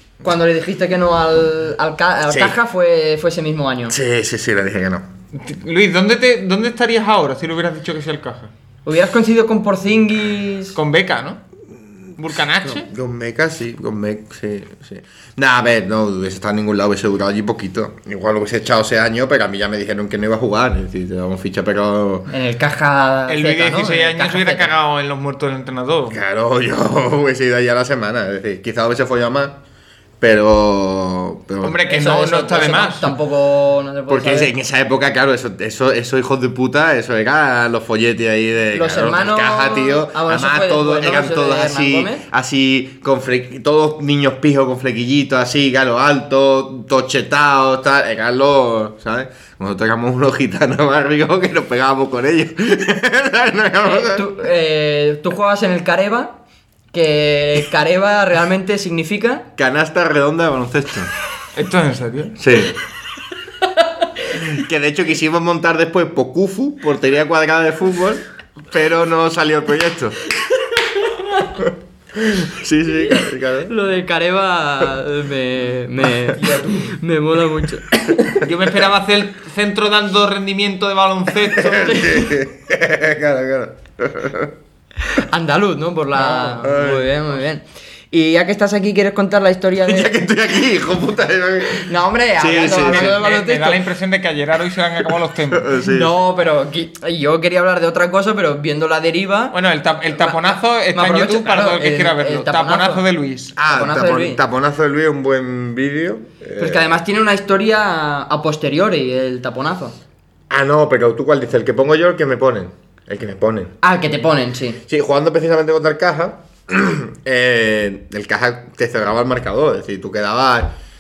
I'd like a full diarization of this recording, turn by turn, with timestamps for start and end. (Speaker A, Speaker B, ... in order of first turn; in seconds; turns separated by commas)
Speaker A: 0.2-4.0, Speaker B: 2.3-2.6, Speaker B: 3.9-5.1, Speaker C: 5.3-8.5, Speaker A: 8.9-10.8, Speaker C: 10.8-11.4, Speaker C: 12.2-12.9, Speaker B: 12.6-22.3, Speaker A: 22.3-24.7, Speaker C: 23.3-26.2, Speaker B: 26.1-29.6, Speaker B: 30.2-31.8, Speaker C: 31.6-33.1, Speaker A: 31.9-34.5, Speaker B: 34.1-54.3, Speaker A: 38.7-42.2, Speaker A: 53.9-56.4, Speaker A: 56.9-59.5, Speaker B: 59.6-61.1, Speaker C: 61.5-62.4, Speaker B: 62.4-62.8, Speaker B: 64.3-70.2, Speaker A: 71.0-71.5, Speaker B: 71.6-73.7, Speaker A: 73.7-78.4, Speaker C: 76.4-76.7, Speaker C: 78.4-82.1, Speaker B: 81.5-84.5, Speaker A: 82.0-82.3, Speaker A: 85.1-90.2, Speaker B: 86.1-87.4, Speaker B: 89.8-93.2, Speaker A: 91.7-93.8, Speaker C: 92.7-95.7, Speaker B: 95.5-96.2, Speaker A: 95.9-99.6, Speaker C: 99.5-103.5, Speaker A: 100.2-103.0, Speaker B: 103.5-106.8, Speaker A: 103.7-104.4, Speaker A: 106.6-110.0, Speaker B: 110.5-113.7, Speaker A: 113.8-114.8, Speaker B: 114.9-120.7